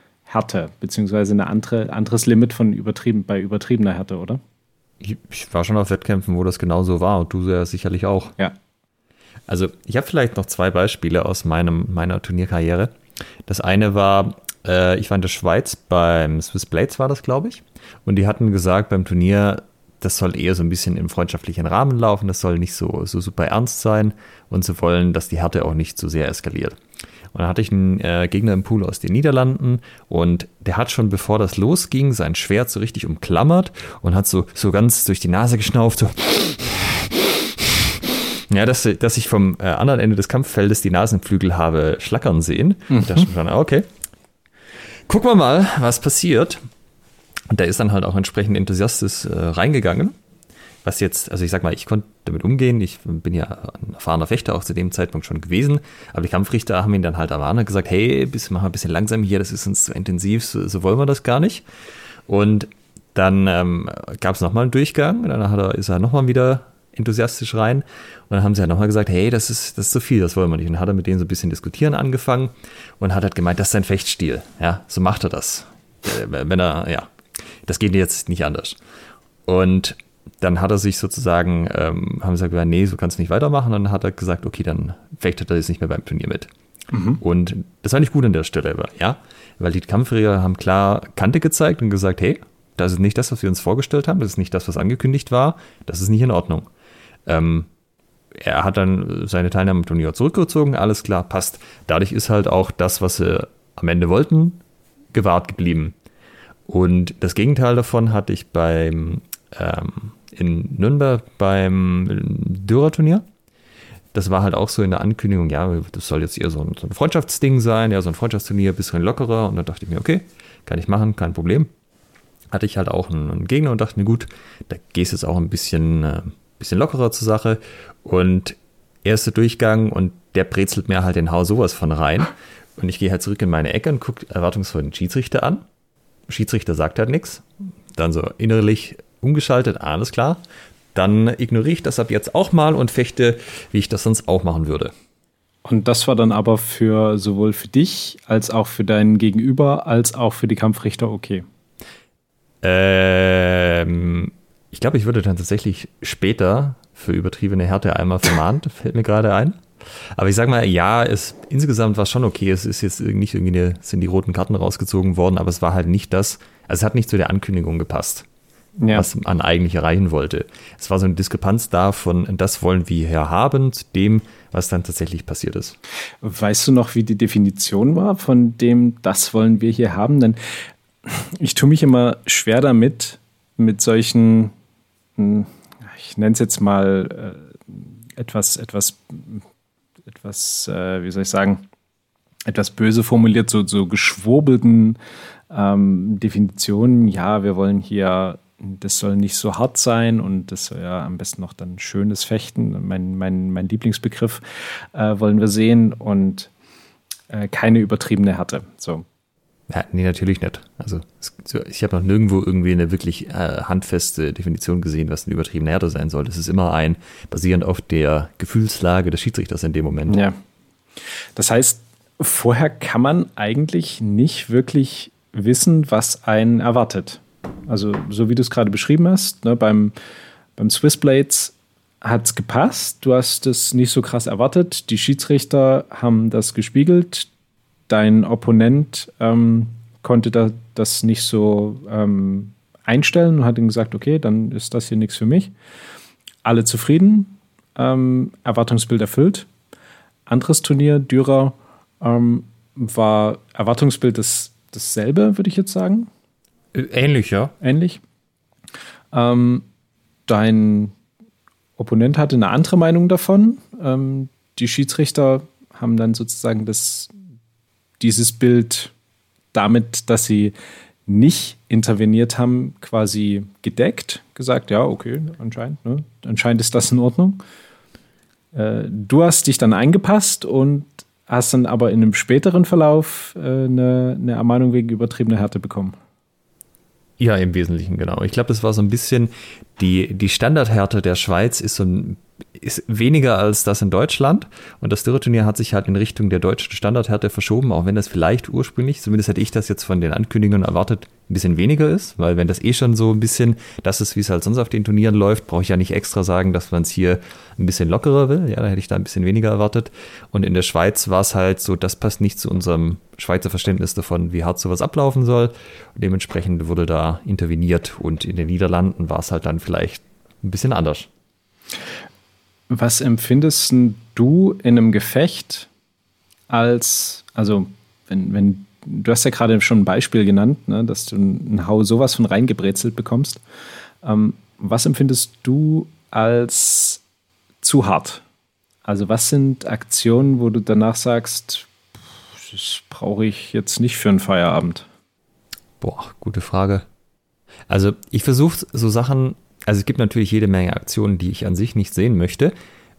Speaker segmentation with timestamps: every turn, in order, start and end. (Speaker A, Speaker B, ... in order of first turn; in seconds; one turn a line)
Speaker A: 0.3-4.4
Speaker B: 5.0-8.3
Speaker B: 9.5-12.9
Speaker B: 13.5-26.8
Speaker B: 27.3-43.9
Speaker A: 42.9-43.3
Speaker B: 45.1-46.6
Speaker B: 47.5-50.1
Speaker B: 50.8-61.6
Speaker B: 62.3-77.1
Speaker B: 77.7-78.8
Speaker B: 79.5-86.5
Speaker A: 86.9-87.2
Speaker B: 87.2-96.7
Speaker B: 97.3-97.7
Speaker B: 98.3-104.6
Speaker B: 105.1-106.0
Speaker B: 106.7-113.2
Speaker B: 114.1-121.7
Speaker B: 122.5-135.6
Speaker B: 136.3-140.4
Speaker B: 140.9-144.9
Speaker A: 145.7-151.4
Speaker B: 152.6-168.3
Speaker A: 168.8-169.1
Speaker B: 168.9-175.8
Speaker A: 176.2-180.4
Speaker A: 181.0-184.5
Speaker A: 185.2-189.4
Speaker A: 190.1-191.7
Speaker A: 192.5-195.0
Speaker A: 195.5-206.5
Speaker A: 207.3-209.1
Speaker B: 209.7-220.2
Speaker A: 220.1-220.4
Speaker A: 221.4-229.9
Speaker A: 230.6-237.3
Speaker A: 237.9-245.5
Speaker A: 246.4-249.5
Speaker A: 250.3-256.1
Speaker B: 256.7-257.6
Speaker A: 257.6-258.0
Speaker A: 259.1-259.7
Speaker A: 260.3-260.9
Speaker A: 261.8-267.1
Speaker A: 268.0-268.9
Speaker A: 269.5-270.5
Speaker A: 271.1-277.4
Speaker A: 278.5-286.0
Speaker B: 287.2-321.1
Speaker A: 322.7-325.7
Speaker A: 326.5-333.4
Speaker A: 334.0-337.0
Speaker A: 337.6-338.2
Speaker A: 338.9-341.7
Speaker A: 342.4-344.9
Speaker B: 345.8-346.9
Speaker B: 347.7-352.5